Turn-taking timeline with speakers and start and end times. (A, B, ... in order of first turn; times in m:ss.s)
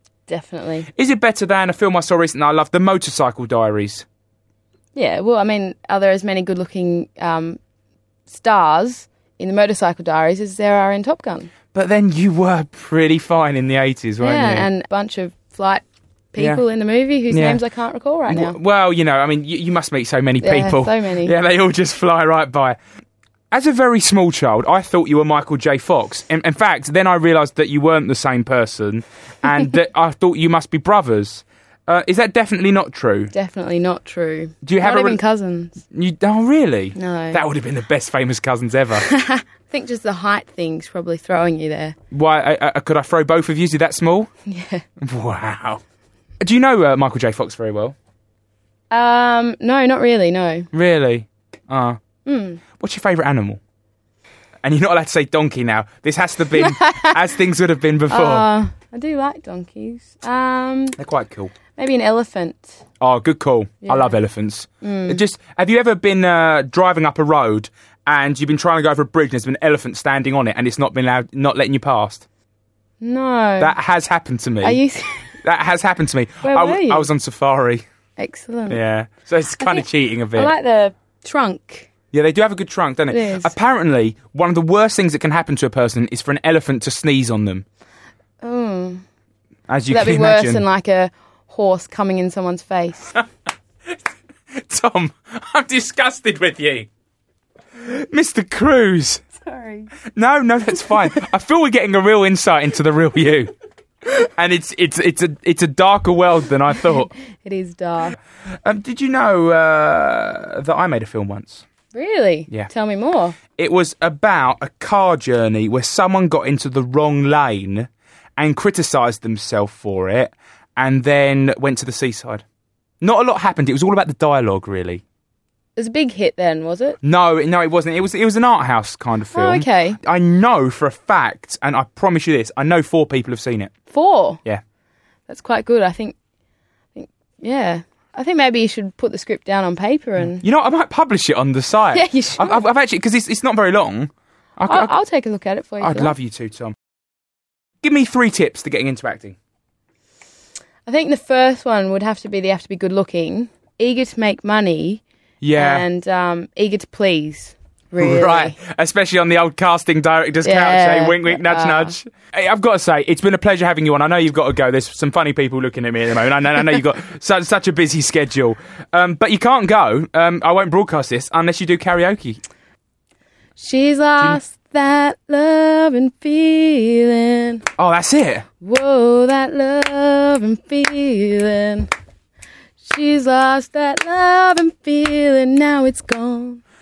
0:00.3-0:00.9 A
0:01.0-0:04.0 B
0:05.0-0:07.6 A
0:08.3-0:11.5 A
0:11.7-0:14.7 B
0:14.2-0:18.6 A
0:16.4-0:16.6 B
0:17.3-0:17.6 B
0:18.3-0:22.8 B
0:20.4-0:21.4 A
0:23.5-0:33.3 B
0:33.3-0:35.8 A
0:34.6-0:35.2 B
0:35.9-0:39.1 B
0:37.0-0:37.4 A
0:39.0-0:42.0 A
0:42.1-0:44.3 B
0:44.5-0:44.8 A
0:45.0-0:45.8 B
0:46.4-0:48.0 B
0:48.9-0:50.7 A
0:50.7-0:52.0 B
0:52.3-0:52.6 A
0:52.8-0:53.6 B
0:54.6-0:58.5 B
0:56.6-0:57.2 A
0:58.1-1:01.0 A
1:01.0-1:01.5 B
1:01.8-1:02.8 A
1:03.0-1:12.3 B
1:03.8-1:04.2 A
1:04.8-1:05.2 A
1:13.0-1:13.8 A
1:13.6-1:14.8 B
1:14.6-1:15.4 A
1:15.4-1:17.8 B
1:16.4-1:17.1 A
1:18.2-1:18.8 A
1:18.7-1:20.5 B
1:19.6-1:21.9 A
1:22.1-1:27.6 B
1:23.1-1:23.5 A
1:28.4-1:29.0 A
1:29.7-1:30.6 B
1:29.9-1:33.2 A
1:34.6-1:36.9 B
1:37.8-1:39.2 B
1:39.4-1:39.9 A
1:40.2-1:43.5 B
1:44.1-1:47.1 B
1:47.1-1:48.2 A
1:48.6-1:51.6 B
1:51.9-1:53.4 A
1:53.6-2:02.4 B
2:03.0-2:05.0 B
2:05.8-2:07.0 A
2:07.0-2:13.7 B
2:09.3-2:10.0 A
2:13.9-2:14.4 A
2:15.3-2:16.2 A
2:17.0-2:20.4 A
2:20.4-2:24.9 B
2:21.9-2:22.6 A
2:24.7-2:26.2 A
2:25.8-2:26.8 B
2:27.8-2:29.4 B
2:30.9-2:35.0 A
2:35.4-2:35.8 B
2:35.6-2:38.6 A
2:38.0-2:52.4 B
2:40.4-2:42.0 A
2:53.6-2:57.7 A
2:57.8-2:58.4 B
2:58.6-3:01.9 A
3:02.8-3:06.6 A